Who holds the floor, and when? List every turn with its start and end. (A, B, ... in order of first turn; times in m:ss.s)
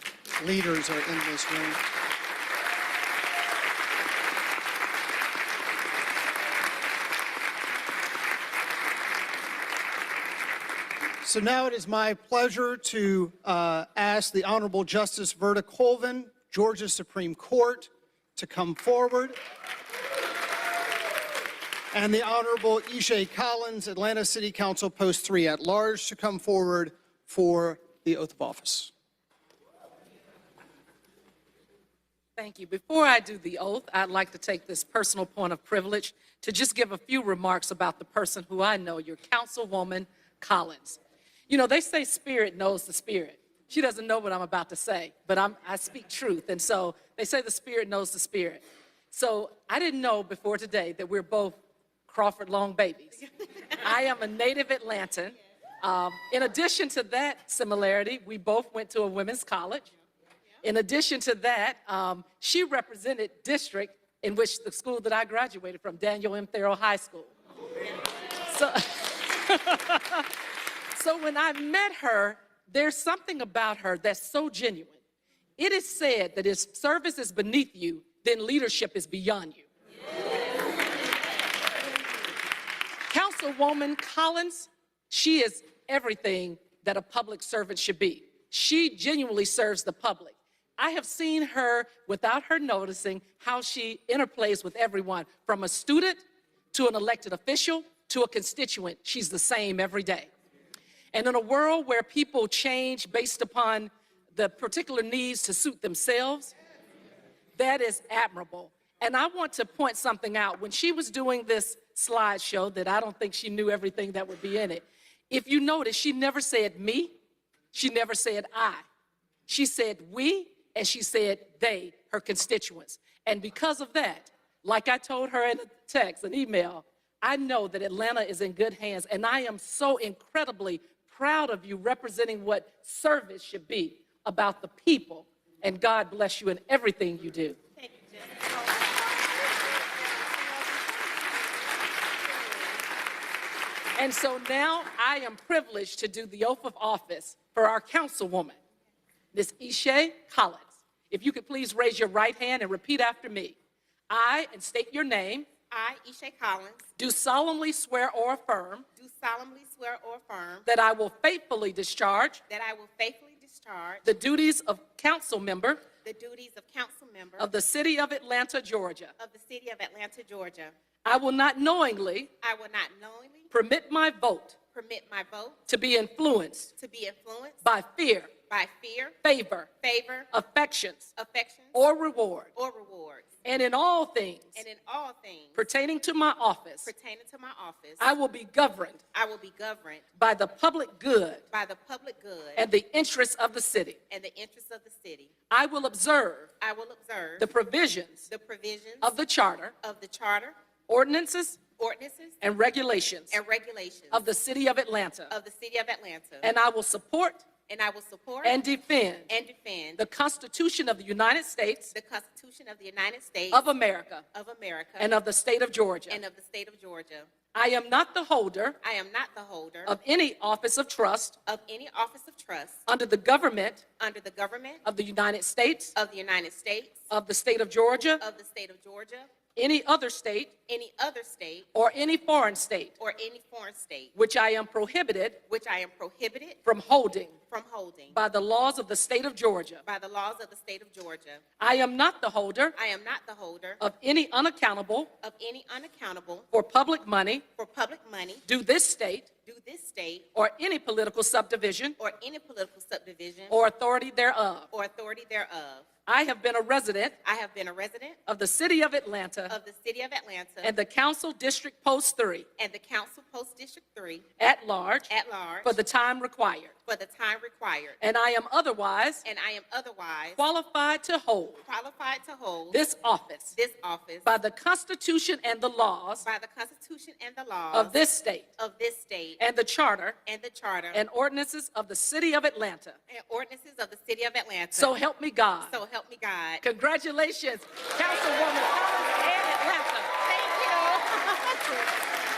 0:00.4-0:01.8 A
0:11.2-0:19.4 A
0:21.9-0:28.9 A
0:32.4-0:41.0 B
0:41.5-0:51.6 B
0:52.1-0:59.9 B
1:00.6-1:07.3 B
1:08.5-1:10.3 B
1:10.9-1:15.0 B
1:15.6-1:19.6 B
1:23.1-1:40.3 B
1:41.1-1:46.5 B
1:47.6-1:57.1 B
1:57.7-1:58.8 B
1:59.5-2:17.6 B
2:17.8-2:21.4 C
2:22.3-2:22.7 C
2:24.0-2:28.6 B
2:29.3-2:33.6 B
2:34.1-2:35.5 B
2:35.7-2:36.9 C
2:37.0-2:38.8 B
2:39.0-2:40.7 C
2:40.6-2:42.4 B
2:42.5-2:44.0 C
2:44.0-2:45.8 B
2:46.0-2:47.5 C
2:47.4-2:49.1 B
2:49.2-2:50.7 C
2:51.0-2:52.3 B
2:52.4-2:53.5 C
2:53.5-2:54.6 B
2:54.7-2:55.6 C
2:55.7-2:56.7 B
2:56.8-2:57.6 C
2:57.6-2:58.3 B
2:58.4-2:59.2 C
2:59.2-2:59.7 B
2:59.8-3:00.3 C
3:00.3-3:01.1 B
3:01.2-3:01.8 C
3:01.7-3:02.5 B
3:02.5-3:03.3 C
3:03.4-3:04.6 B
3:04.5-3:05.6 C
3:05.5-3:06.9 B
3:06.8-3:08.1 C
3:08.0-3:09.0 B
3:09.1-3:10.0 C
3:10.2-3:11.4 B
3:11.5-3:12.7 C
3:12.6-3:14.0 B
3:14.1-3:15.3 C
3:15.5-3:16.5 B
3:16.6-3:17.5 C
3:17.4-3:18.2 B
3:18.3-3:19.1 C
3:19.0-3:19.7 B
3:19.8-3:20.6 C
3:20.9-3:21.6 B
3:21.8-3:22.4 C
3:22.4-3:23.4 B
3:23.3-3:24.2 C
3:24.1-3:25.3 B
3:25.3-3:26.5 C
3:26.4-3:27.5 B
3:27.7-3:28.6 C
3:28.4-3:29.3 B
3:29.3-3:30.0 C
3:30.0-3:31.9 B
3:31.9-3:33.7 C
3:33.5-3:34.2 B
3:34.3-3:35.1 C
3:35.0-3:36.2 B
3:36.1-3:37.3 C
3:37.5-3:38.8 B
3:38.8-3:39.9 C
3:39.8-3:41.4 B
3:41.4-3:42.8 C
3:42.9-3:43.8 B
3:44.0-3:44.8 C
3:44.8-3:45.9 B
3:45.9-3:47.1 C
3:47.1-3:48.2 B
3:48.2-3:49.3 C
3:49.6-3:50.5 B
3:50.7-3:51.7 C
3:51.7-3:52.9 B
3:53.0-3:54.1 C
3:54.1-3:55.4 B
3:55.4-3:56.6 C
3:56.6-3:57.4 B
3:57.5-3:58.2 C
3:58.1-3:59.8 B
3:59.8-4:01.4 C
4:01.6-4:02.8 B
4:02.7-4:03.8 C
4:03.8-4:05.1 B
4:05.2-4:06.5 C
4:06.5-4:07.4 B
4:07.6-4:08.4 C
4:08.4-4:09.3 B
4:09.4-4:10.3 C
4:10.3-4:12.0 B
4:12.0-4:13.6 C
4:13.5-4:14.7 B
4:14.7-4:15.9 C
4:16.0-4:17.2 B
4:17.2-4:18.2 C
4:18.2-4:19.6 B
4:19.5-4:20.7 C
4:20.6-4:22.5 B
4:22.6-4:24.3 C
4:24.4-4:25.1 B
4:25.1-4:25.8 C
4:25.6-4:26.7 B
4:26.8-4:28.0 C
4:28.0-4:29.2 B
4:29.2-4:30.4 C
4:30.4-4:31.6 B
4:31.6-4:32.8 C
4:32.7-4:33.5 B
4:33.5-4:34.3 C
4:34.2-4:36.2 B
4:36.2-4:38.0 C
4:37.7-4:38.5 B
4:38.6-4:39.4 C
4:39.4-4:40.2 B
4:40.2-4:41.0 C
4:40.9-4:43.0 B
4:43.1-4:44.9 C
4:44.7-4:45.7 B
4:45.6-4:46.6 C
4:46.6-4:50.1 B
4:50.2-4:51.9 C